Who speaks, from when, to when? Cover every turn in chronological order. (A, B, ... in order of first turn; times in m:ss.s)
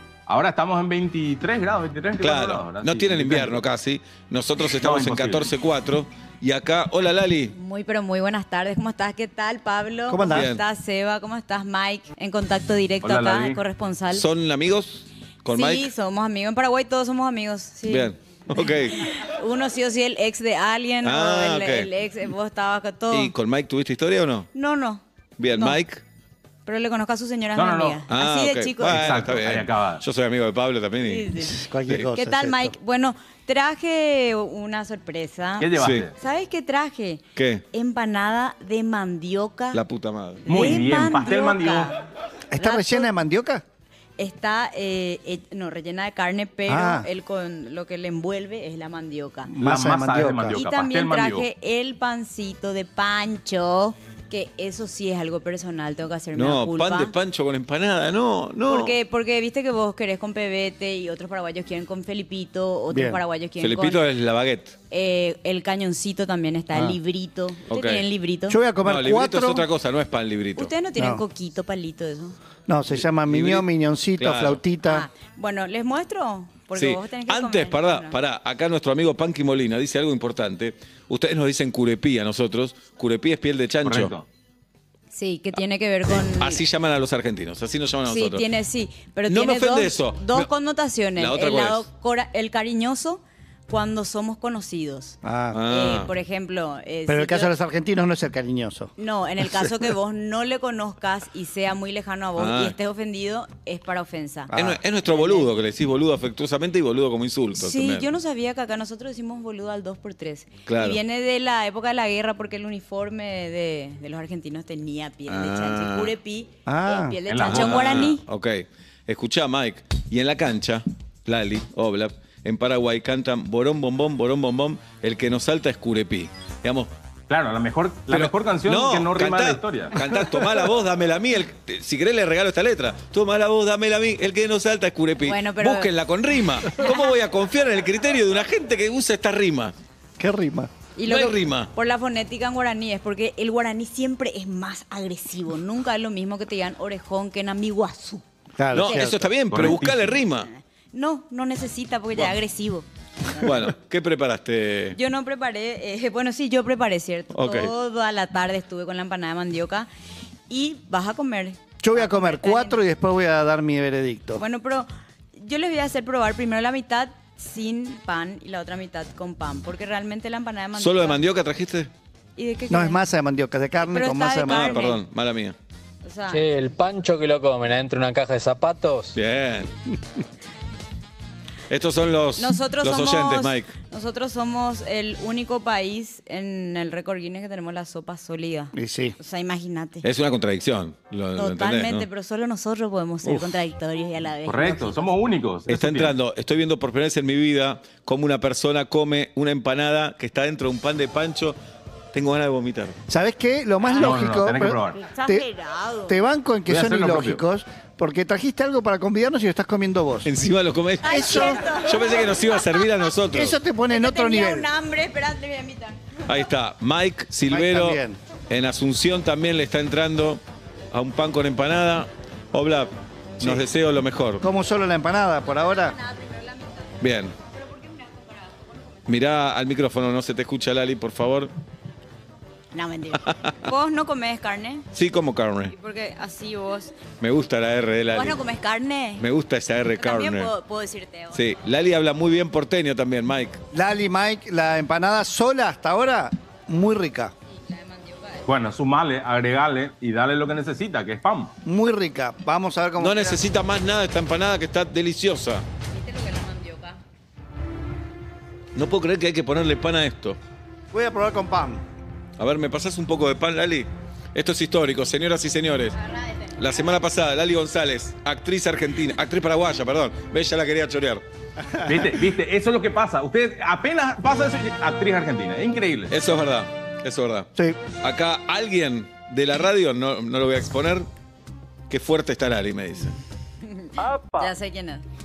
0:00.3-0:03.6 A
0:02.2-0:07.6 B
0:04.8-0:05.5 A
0:07.5-0:14.3 C
0:10.1-0:10.5 D
0:10.3-0:10.6 B
0:13.0-0:13.6 A
0:14.1-0:15.9 B
0:15.5-0:23.3 C
0:17.9-0:19.1 B
0:21.0-0:21.9 B
0:23.1-0:24.5 B
0:24.5-0:25.0 C
0:25.4-0:26.0 B
0:26.7-0:29.0 C
0:27.6-0:28.0 A
0:28.1-0:31.3 B
0:28.8-0:30.0 A
0:31.0-0:31.6 C
0:31.4-0:32.7 D
0:32.1-0:39.8 C
0:35.6-0:36.1 A
0:35.8-0:36.1 B
0:37.4-0:37.6 B
0:39.7-0:40.7 B
0:40.4-0:42.0 C
0:40.5-0:41.9 A
0:42.5-0:43.6 D
0:42.6-0:43.1 C
0:44.2-0:49.5 C
0:46.7-0:47.1 D
0:49.5-0:50.6 D
0:49.6-0:51.5 A
0:50.6-0:57.1 C
0:56.3-0:59.0 B
0:58.7-1:04.0 C
1:02.9-1:03.2 D
1:03.6-1:04.8 B
1:04.9-1:08.6 C
1:07.7-1:08.0 B
1:08.5-1:09.7 D
1:08.8-1:10.7 B
1:10.6-1:12.4 C
1:11.0-1:11.2 D
1:12.7-1:15.1 D
1:13.3-1:13.7 B
1:14.2-1:14.6 B
1:14.8-1:18.2 C
1:16.8-1:24.1 B
1:23.8-1:24.2 A
1:25.1-1:26.6 C
1:26.2-1:28.4 B
1:28.1-1:37.5 C
1:29.3-1:30.5 B
1:31.2-1:31.9 B
1:35.2-1:35.6 D
1:35.5-1:36.1 B
1:37.1-1:38.9 D
1:39.0-1:44.5 C
1:42.4-1:42.8 B
1:44.5-1:44.8 D
1:44.6-1:48.1 B
1:45.0-1:45.5 C
1:47.6-1:58.2 C
1:50.7-1:51.0 B
1:55.3-1:56.1 B
1:56.7-1:57.2 D
1:57.3-1:58.1 A
1:57.5-2:06.9 B
2:07.3-2:10.0 A
2:08.1-2:19.8 B
2:15.3-2:15.9 C
2:16.8-2:17.1 C
2:20.2-2:20.7 D
2:21.0-2:28.2 C
2:21.1-2:21.7 B
2:28.6-2:29.8 D
2:28.7-2:30.5 B
2:29.5-2:30.0 A
2:30.4-2:33.7 C
2:33.4-2:35.0 B
2:35.0-2:39.9 C
2:37.3-2:37.7 B
2:40.5-2:42.8 C
2:41.8-2:44.4 D
2:44.4-2:51.2 C
2:50.8-2:51.9 B
2:52.4-2:53.0 C
2:52.7-2:54.8 D
2:53.8-2:55.0 C
2:54.4-2:55.6 B
2:56.0-2:56.4 C
2:56.3-2:59.2 E
2:59.2-2:59.7 B
3:01.7-3:03.7 B
3:02.4-3:10.0 C
3:08.7-3:09.2 D
3:10.0-3:12.1 B
3:11.4-3:15.0 C
3:14.5-3:16.1 A
3:15.7-3:21.6 B
3:22.1-3:23.0 B
3:23.1-3:25.5 D
3:23.8-3:24.2 C
3:24.0-3:25.0 A
3:24.9-3:26.2 C
3:26.1-3:30.3 D
3:26.7-3:27.4 A
3:30.2-3:33.6 B
3:31.0-3:32.8 C
3:31.0-3:31.6 D
3:33.3-3:34.7 D
3:33.9-3:36.2 C
3:36.3-3:40.4 B
3:37.5-3:38.2 D
3:40.9-3:44.4 B
3:43.4-3:43.7 D
3:44.4-3:46.0 D
3:45.6-3:47.0 C
3:47.0-3:47.3 B
3:47.5-3:48.7 C
3:49.1-3:51.5 B
3:52.7-3:54.9 C
3:53.3-3:53.5 B
3:54.9-3:55.7 B
3:55.7-3:57.0 C
3:57.2-3:58.4 B
3:58.1-3:59.2 C
3:59.2-4:00.5 B
4:00.0-4:01.4 C
4:01.3-4:03.6 B
4:03.7-4:07.3 D
4:07.6-4:08.5 C
4:08.5-4:11.6 A
4:11.6-4:13.4 D
4:13.0-4:15.6 B
4:15.9-4:17.0 C
4:18.8-4:20.4 B
4:20.9-4:21.8 D
4:22.4-4:26.0 B
4:26.0-4:26.5 C
4:26.6-4:31.2 B
4:31.8-4:36.1 A
4:36.1-4:41.1 B
4:41.9-4:43.2 B
4:43.6-4:45.0 C